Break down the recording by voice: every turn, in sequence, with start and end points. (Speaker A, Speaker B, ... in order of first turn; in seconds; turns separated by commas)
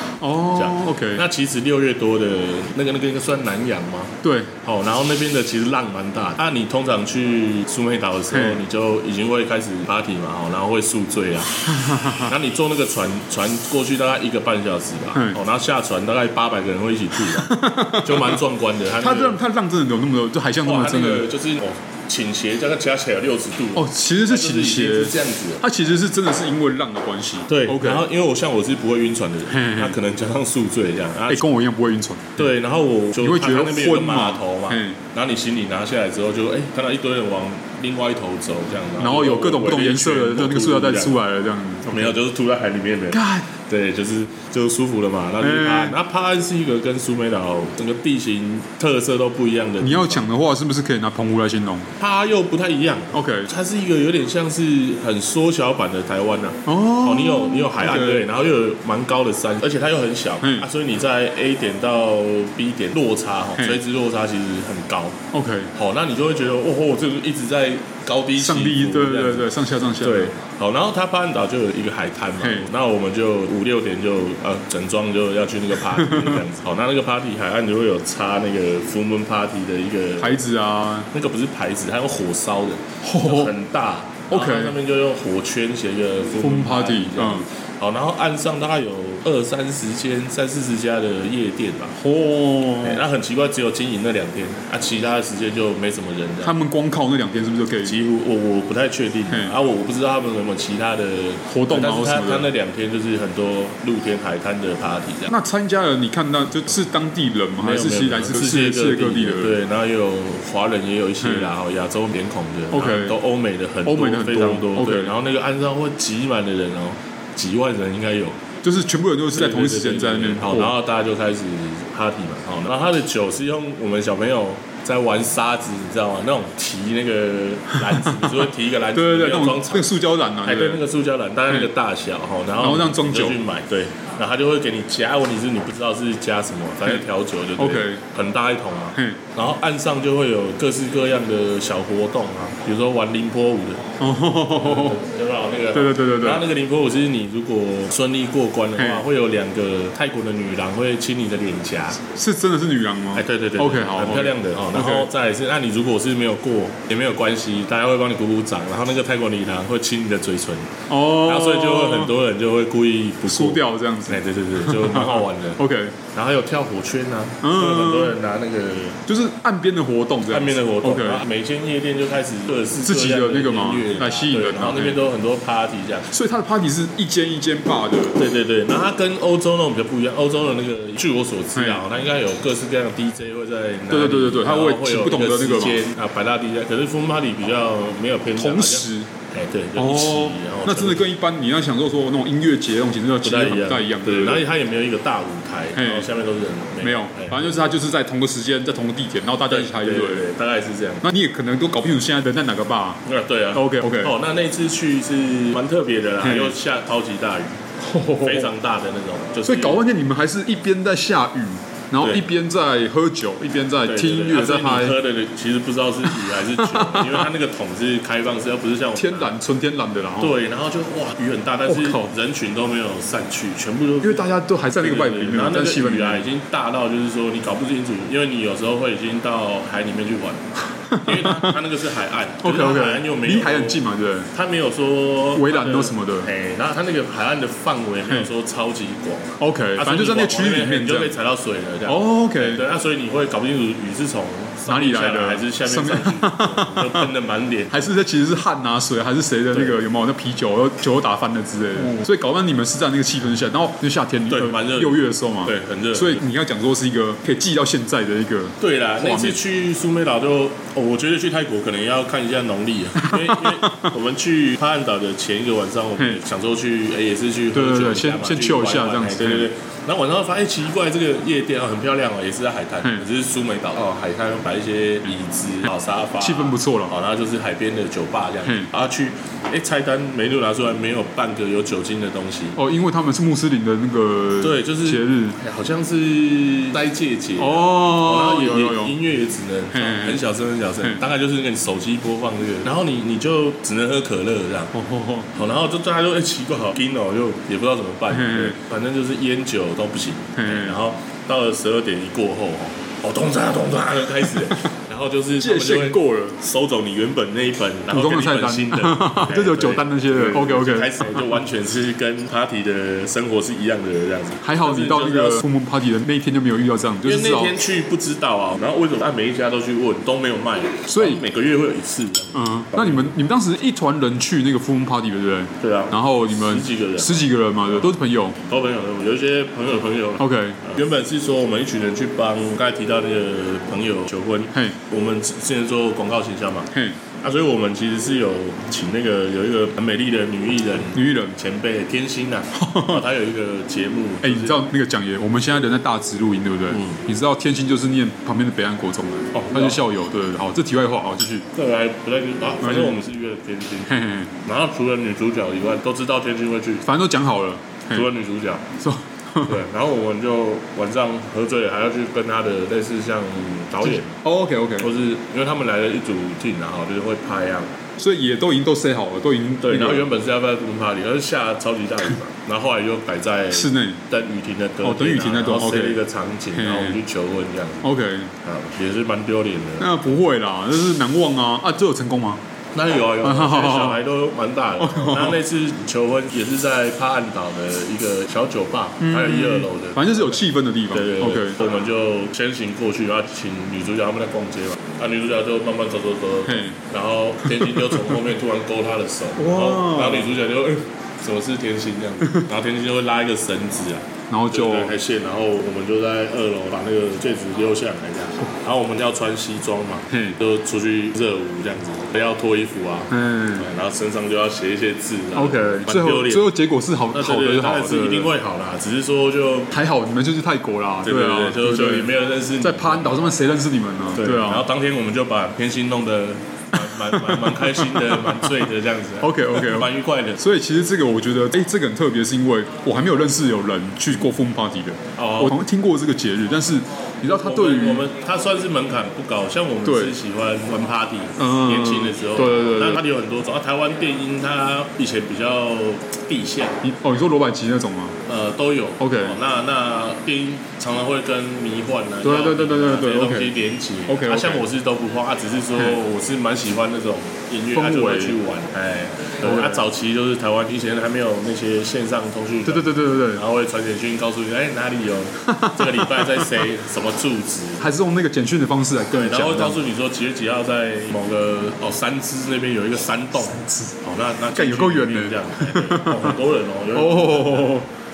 Speaker A: 0.2-1.2, Speaker B: 0.5-11.6, Speaker A: 4.2-4.5, Speaker A: 8.3-8.6, Speaker A: 11.7-12.3, Speaker B: 12.1-19.4, Speaker A: 17.2-18.4, Speaker A: 19.0-21.2, Speaker B: 20.6-25.6, Speaker A: 23.8-28.1, Speaker B: 27.5-31.4, Speaker A: 29.5-30.0, Speaker A: 31.3-32.4, Speaker B: 32.4-41.2, Speaker A: 33.2-35.0, Speaker A: 39.0-42.2, Speaker B: 41.9-50.3, Speaker A: 43.1-43.5, Speaker A: 45.4-46.0, Speaker A: 49.8-51.9, Speaker B: 52.0-65.2, Speaker A: 53.1-53.5, Speaker A: 56.7-58.2, Speaker A: 65.3-65.7, Speaker B: 65.7-80.4, Speaker A: 68.4-70.3, Speaker A: 72.4-72.7, Speaker A: 75.9-76.4, Speaker A: 80.2-81.1, Speaker B: 81.1-92.0, Speaker A: 83.0-83.5, Speaker A: 84.3-84.8, Speaker A: 86.4-87.5, Speaker A: 92.0-93.0, Speaker B: 92.8-96.6, Speaker A: 96.4-97.9, Speaker B: 97.8-105.3, Speaker A: 101.5-102.5, Speaker A: 105.3-109.6, Speaker B: 107.6-118.4, Speaker A: 111.2-111.5, Speaker A: 112.7-113.2, Speaker A: 113.9-115.1, Speaker A: 118.6-120.7, Speaker B: 119.3-143.8, Speaker A: 127.8-128.2, Speaker A: 128.9-130.8, Speaker A: 132.6-133.4, Speaker A: 137.6-138.0, Speaker A: 144.0-145.0, Speaker B: 144.6-152.0, Speaker A: 145.7-146.4, Speaker A: 148.8-149.1, Speaker A: 152.1-155.1, Speaker B: 153.2-165.6, Speaker A: 160.9-162.1, Speaker A: 163.3-166.0, Speaker B: 166.1-169.0, Speaker A: 167.4-168.2, Speaker A: 169.1-171.2, Speaker B: 170.3-176.1, Speaker A: 172.8-175.0, Speaker A: 176.1-178.2, Speaker B: 178.2-191.1, Speaker A: 181.6-181.8, Speaker A: 183.9-185.8, Speaker A: 188.4-189.1, Speaker A: 189.8-194.4, Speaker B: 193.2-197.7, Speaker A: 195.8-196.1, Speaker A: 196.8-200.2, Speaker B: 199.5-201.1, Speaker A: 201.0-203.0, Speaker B: 203.1-207.6, Speaker A: 203.5-204.1, Speaker A: 206.2-206.6, Speaker A: 207.8-208.5, Speaker B: 208.2-209.8, Speaker A: 209.5-215.0, Speaker B: 213.9-219.3, Speaker A: 216.1-217.3, Speaker A: 219.0-220.4, Speaker B: 220.2-247.9, Speaker A: 221.7-222.1, Speaker A: 224.0-226.3, Speaker A: 230.9-231.6, Speaker A: 232.4-234.3, Speaker A: 235.3-236.3, Speaker A: 239.4-241.1, Speaker A: 241.9-242.6, Speaker A: 244.7-247.1, Speaker A: 247.7-259.4, Speaker B: 249.5-249.8, Speaker B: 254.3-256.2, Speaker B: 258.6-282.6, Speaker A: 262.9-263.9, Speaker A: 267.5-269.5, Speaker A: 276.2-276.9, Speaker A: 278.4-278.7, Speaker A: 282.6-285.4, Speaker B: 284.4-294.8, Speaker A: 287.4-288.9, Speaker A: 289.7-290.2, Speaker A: 294.7-295.3, Speaker B: 295.3-315.4, Speaker A: 298.1-298.6, Speaker A: 300.4-300.8, Speaker A: 305.4-306.4, Speaker A: 307.9-311.4, Speaker A: 314.4-317.6, Speaker B: 317.1-323.1, Speaker A: 320.9-321.2, Speaker A: 322.3-328.4, Speaker B: 325.6-327.9, Speaker B: 328.4-336.7, Speaker A: 330.2-330.6, Speaker A: 336.7-337.0, Speaker B: 337.2-344.6, Speaker A: 340.9-341.4, Speaker A: 342.6-343.0, Speaker A: 344.2-351.4, Speaker B: 346.7-347.0, Speaker B: 349.3-349.8, Speaker B: 351.5-356.9, Speaker A: 352.6-353.0, Speaker A: 353.9-354.3, Speaker A: 356.9-358.1, Speaker B: 357.9-358.7, Speaker A: 358.8-359.6, Speaker B: 359.4-364.2, Speaker A: 363.8-364.9, Speaker B: 364.8-367.7, Speaker A: 368.0-370.1, Speaker B: 369.6-380.0, Speaker A: 373.5-374.0, Speaker A: 374.8-376.0, Speaker A: 376.5-377.0, Speaker A: 377.8-378.3, Speaker A: 379.8-382.4, Speaker B: 382.7-416.5, Speaker A: 383.2-384.0, Speaker A: 384.8-385.4, Speaker A: 389.0-391.6, Speaker A: 396.4-396.8, Speaker A: 397.5-398.2, Speaker A: 399.4-400.3, Speaker A: 402.2-402.5, Speaker A: 404.3-404.9, Speaker A: 410.1-410.4, Speaker A: 413.1-413.7, Speaker A: 415.4-418.3, Speaker B: 417.1-419.7, Speaker A: 419.7-424.6, Speaker B: 421.0-423.3, Speaker B: 424.1-430.4, Speaker A: 426.7-428.7, Speaker A: 429.2-438.1, Speaker B: 435.2-435.5, Speaker B: 437.3-446.8, Speaker A: 439.9-440.1, Speaker A: 441.4-443.0, Speaker A: 446.8-448.1, Speaker B: 448.3-467.9, Speaker A: 449.0-449.4, Speaker A: 452.2-454.6, Speaker A: 457.7-458.4, Speaker A: 459.4-459.9, Speaker A: 462.7-463.4, Speaker A: 465.5-466.6, Speaker A: 467.8-469.8, Speaker B: 469.1-477.8, Speaker A: 473.5-473.9, Speaker A: 474.5-476.4, Speaker A: 476.9-477.9